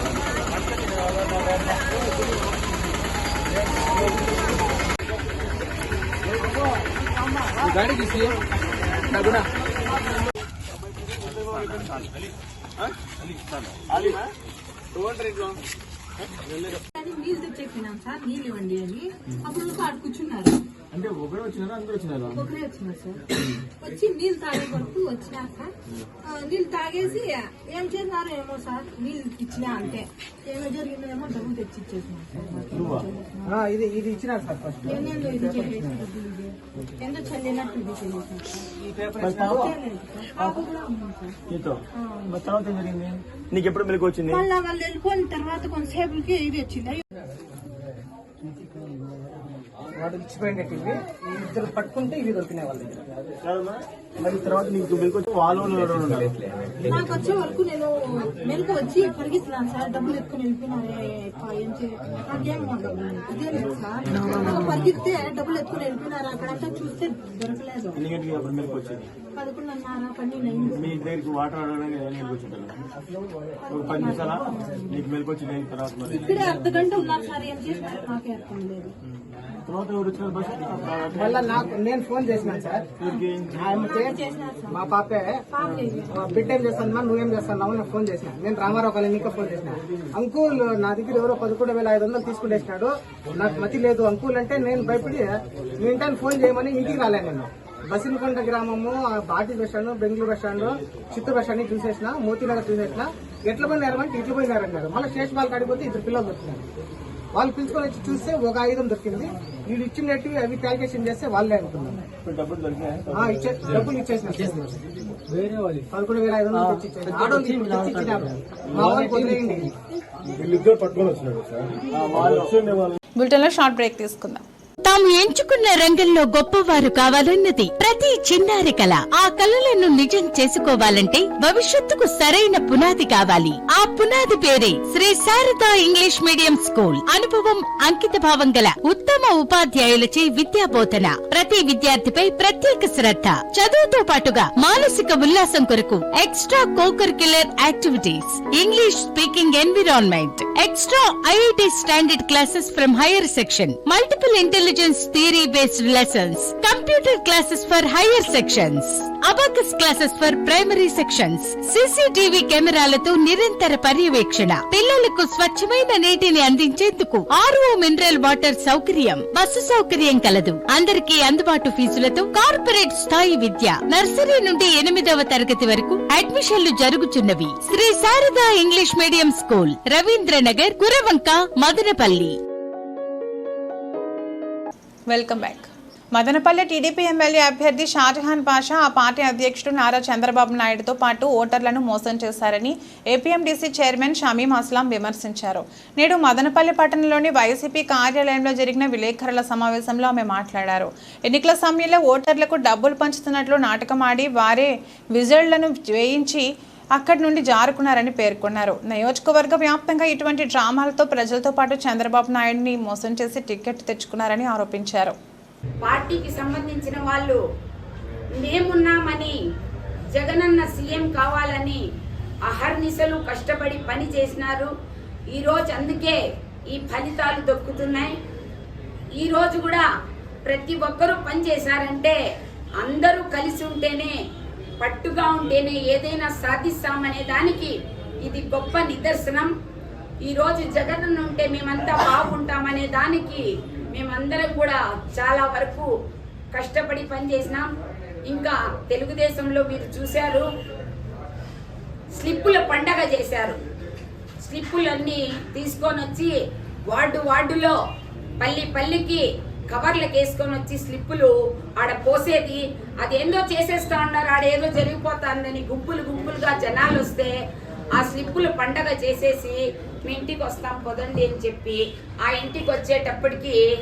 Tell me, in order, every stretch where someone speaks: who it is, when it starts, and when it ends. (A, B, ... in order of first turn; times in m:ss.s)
0:13.9-0:14.2 A
0:16.9-0:20.5 B
0:20.9-0:22.4 A
0:22.4-0:23.2 B
0:23.8-0:25.7 B
0:26.2-0:33.5 B
0:32.8-0:33.0 A
0:33.5-0:35.9 C
0:34.8-0:38.7 B
0:39.2-0:39.7 A
0:39.3-0:41.4 B
0:41.5-0:44.4 A
0:42.0-0:42.3 B
0:44.3-0:47.0 B
0:50.0-0:53.0 C
0:53.4-0:56.4 A
0:56.8-1:08.0 B
1:08.0-1:09.0 A
1:09.4-1:10.8 B
1:10.8-1:12.7 A
1:13.6-1:15.0 B
1:13.7-1:14.4 A
1:14.9-1:16.2 A
1:16.1-1:18.9 B
1:19.7-1:21.5 A
1:21.1-1:22.9 C
1:23.0-1:23.5 A
1:23.0-1:24.9 B
1:23.5-1:24.2 C
1:24.7-1:25.4 C
1:25.5-1:26.4 B
1:26.1-1:46.6 C
1:47.3-1:52.0 C
1:52.2-1:54.0 A
1:53.1-1:54.8 C
1:55.9-1:59.7 C
1:58.8-1:59.3 A
2:00.4-2:02.9 A
2:03.2-2:04.4 D
2:04.8-3:02.4 E
3:05.1-3:35.2 D
3:35.8-3:37.4 F
3:38.4-3:39.4 F
3:40.1-3:41.8 F
3:42.5-3:44.7 F
3:45.3-3:46.2 F
3:46.7-3:48.1 F
3:49.2-3:49.8 F
3:50.5-3:52.2 F
3:52.8-3:54.1 F
3:54.8-3:57.7 F
3:58.2-3:59.5 F
4:00.2-4:05.9 F
4:06.5-4:07.7 F
4:08.3-4:10.5 F
4:12.2-4:13.6 F
4:14.4-4:16.4 F
4:16.9-4:17.8 F
4:18.4-4:27.3 F
4:27.9-4:33.6 F